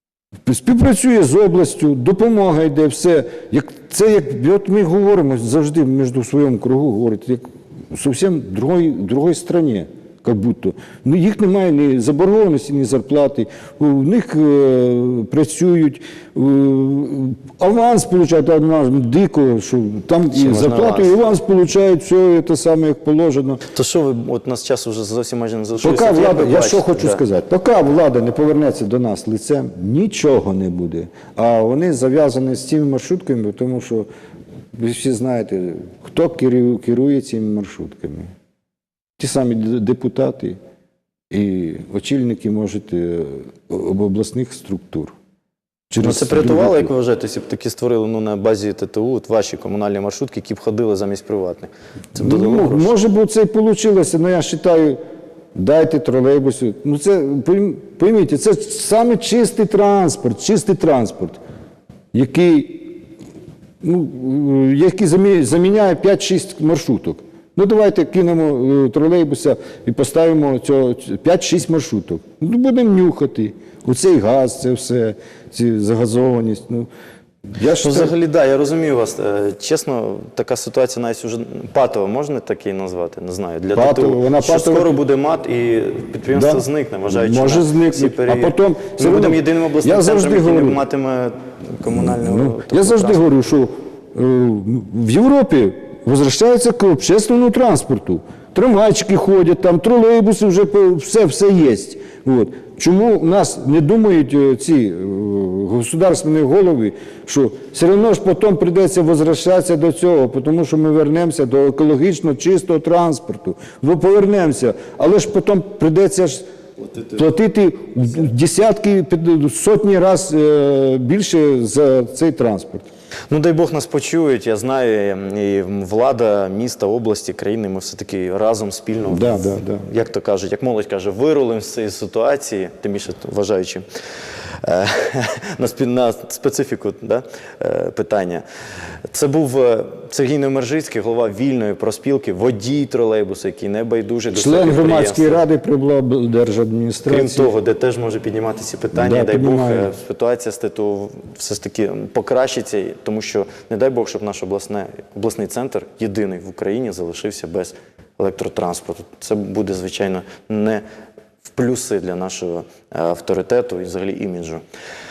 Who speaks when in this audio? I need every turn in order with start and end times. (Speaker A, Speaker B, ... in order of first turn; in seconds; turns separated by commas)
Speaker A: 0.5-23.6, Speaker B: 20.3-21.4, Speaker B: 23.7-27.2, Speaker A: 25.8-34.1, Speaker A: 34.7-38.3, Speaker A: 39.2-40.6, Speaker A: 41.3-45.1, Speaker A: 45.9-46.9, Speaker B: 46.0-52.9, Speaker A: 52.2-55.0, Speaker A: 55.5-61.4, Speaker A: 62.1-63.0, Speaker A: 63.8-76.9, Speaker A: 77.6-78.1, Speaker B: 77.7-93.5, Speaker A: 83.7-85.0, Speaker A: 86.3-90.8, Speaker A: 91.9-116.5, Speaker A: 117.1-122.9, Speaker B: 123.3-133.8, Speaker A: 129.1-129.8, Speaker B: 134.6-138.4, Speaker B: 139.1-145.4, Speaker A: 144.3-147.5, Speaker B: 147.1-160.8, Speaker A: 148.9-149.9, Speaker B: 161.4-164.6